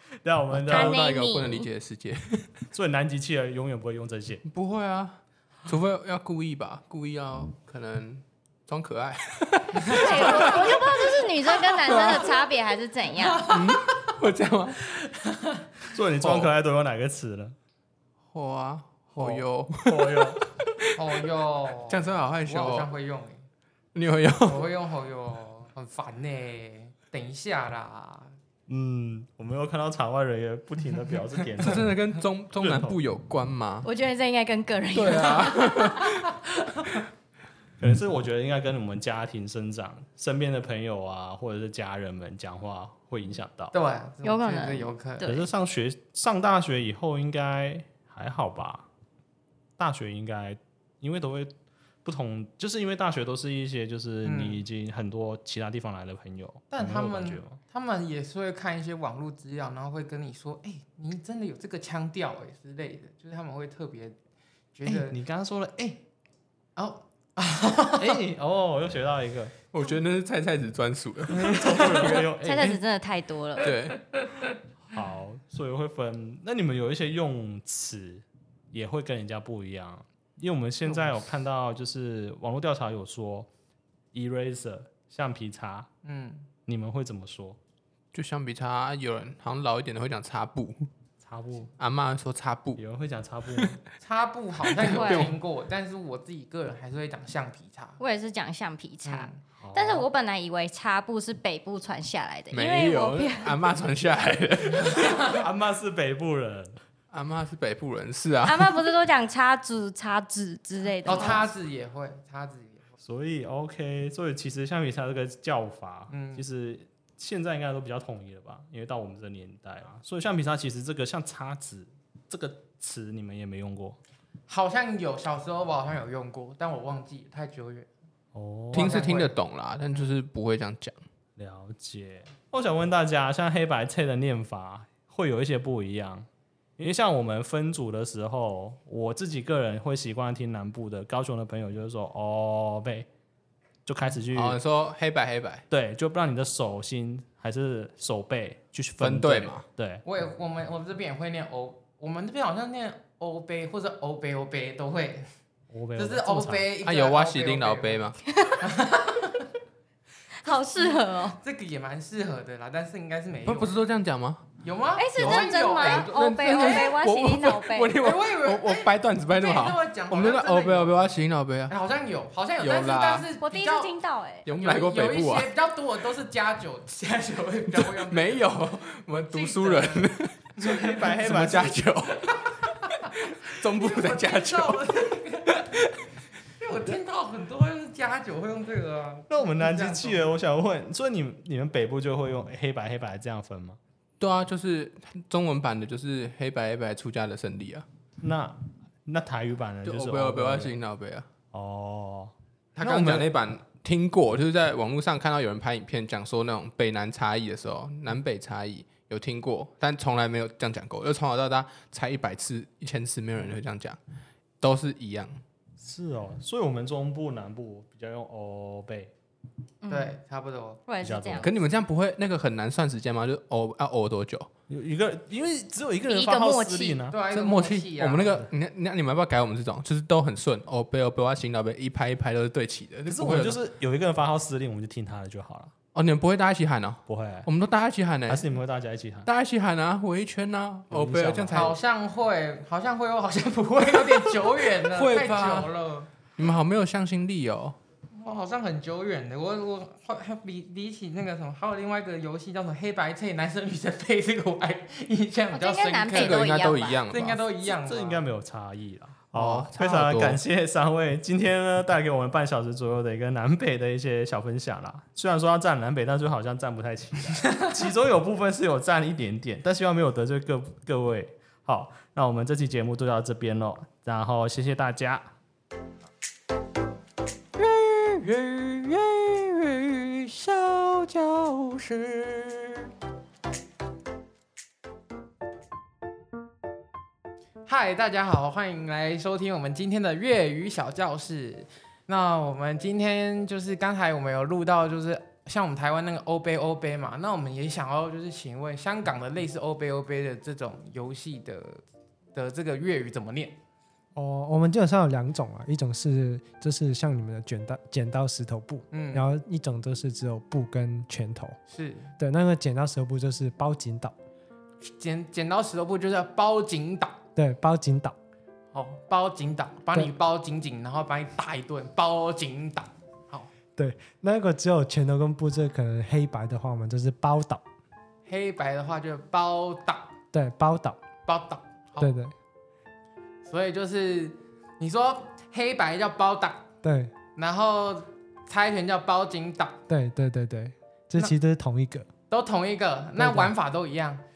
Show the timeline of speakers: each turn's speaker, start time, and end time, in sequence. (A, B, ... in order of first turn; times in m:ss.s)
0:00.2-0:01.0 A
0:00.5-0:02.5 B
0:00.7-0:01.7 C
0:02.7-0:04.4 A
0:04.4-0:11.0 B
0:09.8-0:10.9 D
0:09.8-0:13.5 C
0:11.8-0:12.4 B
0:13.2-0:14.0 D
0:13.4-0:14.8 B
0:15.0-0:15.7 D
0:15.9-0:17.6 A
0:16.2-0:16.5 B
0:18.3-0:22.9 B
0:19.2-0:20.4 A
0:21.0-0:23.4 D
0:23.9-0:24.7 B
0:24.4-0:28.3 D
0:28.7-0:32.0 A
0:31.6-0:33.8 B
0:32.6-0:33.0 A
0:33.8-0:36.1 C
0:34.9-0:36.3 B
0:37.8-0:43.7 A
0:43.7-0:45.3 D
0:44.2-0:45.5 C
0:45.2-0:48.9 A
0:49.8-0:57.6 A
0:54.2-0:54.6 D
0:56.7-1:04.2 D
1:04.7-1:05.2 D
1:04.8-1:06.0 A
1:06.8-1:08.2 D
1:08.0-1:09.5 A
1:09.7-1:12.3 B
1:11.3-1:12.8 A
1:12.3-1:13.7 C
1:13.6-1:14.0 B
1:14.8-1:23.5 A
1:24.1-1:25.9 A
1:26.0-1:26.5 D
1:26.7-1:27.6 A
1:28.1-1:30.9 B
1:31.2-1:31.7 A
1:31.8-1:32.8 B
1:32.8-1:33.8 A
1:34.0-1:38.0 D
1:34.7-1:35.4 B
1:34.8-1:35.3 C
1:38.0-1:43.5 C
1:39.0-1:39.4 D
1:39.6-1:40.1 A
1:42.5-1:45.4 B
1:45.2-1:46.8 A
1:47.1-1:48.9 B
1:48.4-1:51.4 C
1:51.0-1:52.8 D
1:51.1-1:51.4 B
1:53.0-2:04.0 A
1:56.1-1:56.4 D
2:04.5-2:07.9 D
2:08.3-2:08.9 A
2:08.7-2:09.3 D
2:08.7-2:11.0 B
2:11.4-2:23.1 A
2:23.8-2:24.6 A
2:24.3-2:25.6 B
2:25.7-2:30.0 A
2:29.0-2:29.6 B
2:30.0-2:35.2 D
2:35.7-2:36.7 A
2:36.0-2:38.1 D
2:36.8-2:38.2 B
2:38.3-2:38.7 C
2:38.6-2:39.5 D
2:40.4-2:41.4 C
2:40.4-2:43.7 D
2:43.4-2:44.6 B
2:44.6-2:46.9 D
2:45.0-2:48.0 C
2:45.2-2:51.7 B
2:48.0-2:50.9 D
2:51.7-2:53.9 D
2:52.6-2:53.2 B
2:53.4-2:54.5 C
2:54.4-2:55.5 B
2:54.5-2:58.6 D
2:57.7-3:05.0 B
2:59.2-3:02.4 D
3:00.6-3:01.8 A
3:03.7-3:05.8 D
3:05.5-3:06.0 B
3:06.6-3:10.2 D
3:09.3-3:13.8 A
3:14.2-3:17.8 B
3:18.2-3:20.7 A
3:19.8-3:21.3 B
3:21.5-3:23.3 A
3:22.7-3:34.0 B
3:34.6-3:35.4 B
3:35.8-3:39.1 A
3:39.8-3:40.2 C
3:39.9-3:40.8 D
3:40.9-3:41.5 C
3:41.0-3:41.5 A
3:41.4-3:44.5 B
3:44.7-3:47.2 A
3:46.1-3:47.0 C
3:47.1-3:48.5 D
3:47.3-3:53.6 B
3:53.1-3:55.7 A
3:55.9-3:58.4 B
3:57.1-3:57.5 A
3:58.3-3:59.3 A
3:59.2-4:01.8 B
4:00.9-4:01.8 A
4:01.5-4:06.1 D
4:04.0-4:05.7 B
4:06.4-4:07.8 B
4:08.2-4:16.5 D
4:15.5-4:17.0 C
4:16.1-4:17.4 B
4:17.1-4:18.2 D
4:17.6-4:35.3 A
4:19.3-4:20.4 B
4:37.6-4:42.9 D
4:47.6-5:01.8 D
5:02.3-5:03.6 D
5:04.1-5:11.6 E
5:08.9-5:09.2 D
5:11.7-5:12.1 D
5:12.2-5:14.1 E
5:14.9-5:17.2 D
5:17.4-5:18.2 E
5:18.7-5:23.5 D
5:23.8-5:27.6 E
5:28.2-5:30.1 D
5:30.3-5:31.0 E
5:31.2-5:32.1 D
5:32.0-5:32.3 E
5:33.4-5:36.7 D
5:36.8-5:37.1 E
5:37.4-5:39.8 D
5:39.9-5:42.1 E
5:42.3-5:44.2 D
5:43.2-5:43.5 E